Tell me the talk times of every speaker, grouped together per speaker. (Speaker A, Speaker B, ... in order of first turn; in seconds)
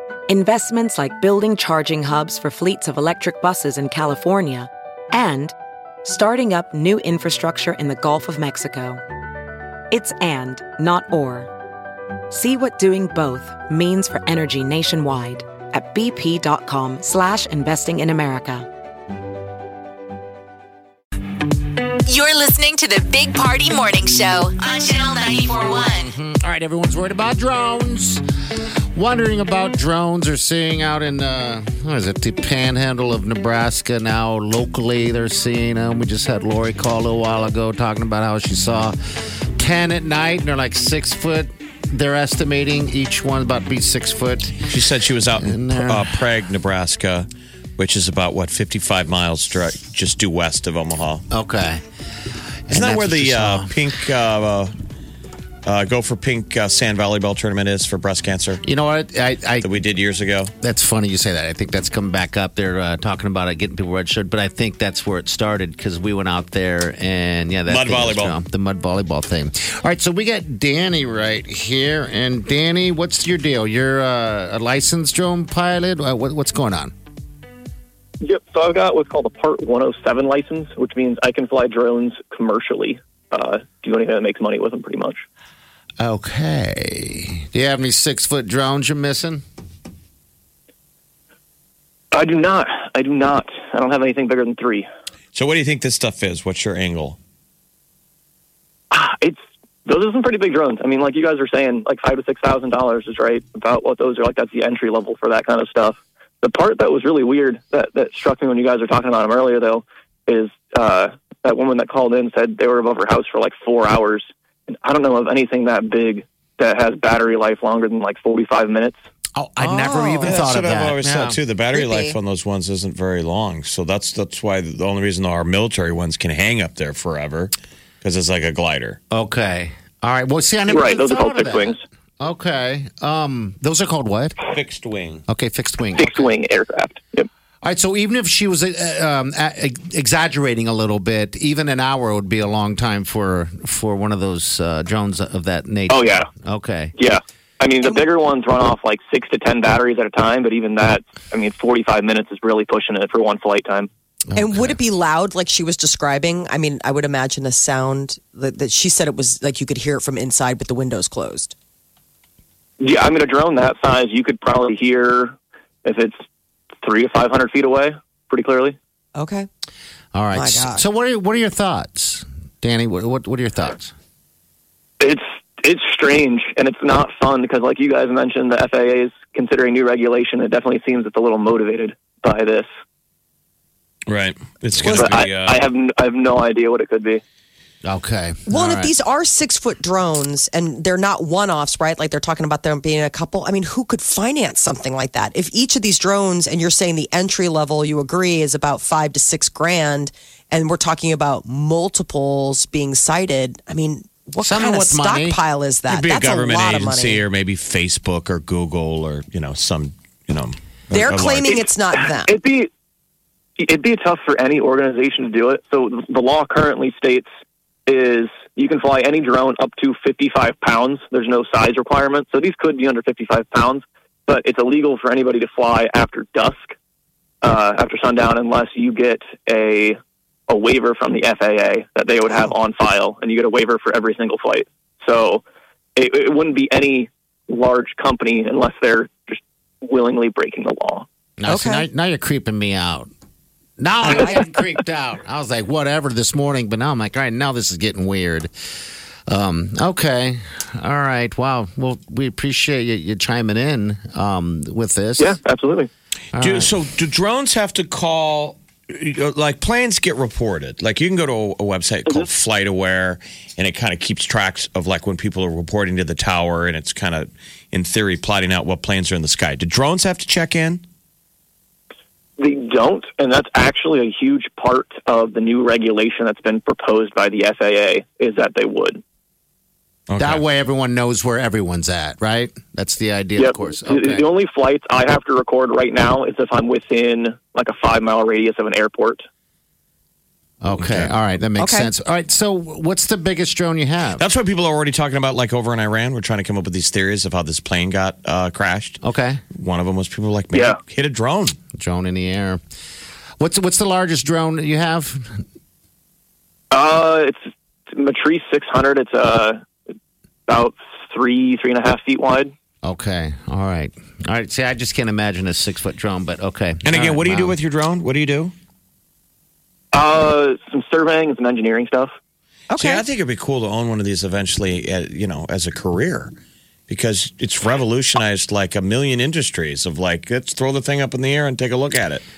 Speaker A: 0.3-9.0, 9.9-11.5, 12.3-18.7
Speaker B: 22.1-26.0
Speaker C: 26.0-28.2, 28.9-38.9, 39.6-44.7, 45.4-46.1, 51.3-51.8, 52.7-53.7, 58.6-59.7, 60.6-76.9, 86.0-89.4, 119.3-121.4, 129.1-134.4, 135.3-136.3, 137.6-146.9, 154.3-154.8, 170.1-173.9, 187.8-188.9, 204.4-205.4, 241.4-243.1, 243.8-248.5, 249.3-255.3, 256.3-256.7, 280.2-284.2, 290.6-294.2, 299.0-299.4, 301.8-302.6, 303.4-305.4, 312.8-317.6
Speaker D: 44.6-51.2, 52.7-54.7, 55.6-58.6, 59.6-60.5, 67.7-68.4, 95.3-97.2, 120.2-129.0, 134.5-135.2, 184.1-185.6, 205.9-211.6, 256.3-270.8, 280.1-280.4, 290.7-291.1, 294.2-299.0, 299.5-301.6, 316.8-318.5, 322.8-326.3, 326.9-332.2
Speaker E: 78.2-85.2, 92.1-94.9, 98.9-119.0, 130.7-131.8, 136.0-137.3, 145.9-146.2, 146.9-153.9, 162.8-166.2, 166.8-168.8, 175.0-182.7, 184.9-187.2, 211.5-212.7, 213.6-217.3, 217.9-226.7, 227.4-230.0, 230.5-235.4, 235.9-241.1, 255.2-255.9, 272.4-279.0, 283.4-289.2, 300.5-300.8, 306.7-309.6, 310.5-312.5, 319.9-322.1
Speaker F: 119.6-120.3, 121.7-122.2, 154.3-161.5, 169.2-169.5, 170.3-170.8, 188.5-207.2, 210.9-212.3, 241.5-241.8, 244.0-244.4, 291.6-291.9, 322.7-323.0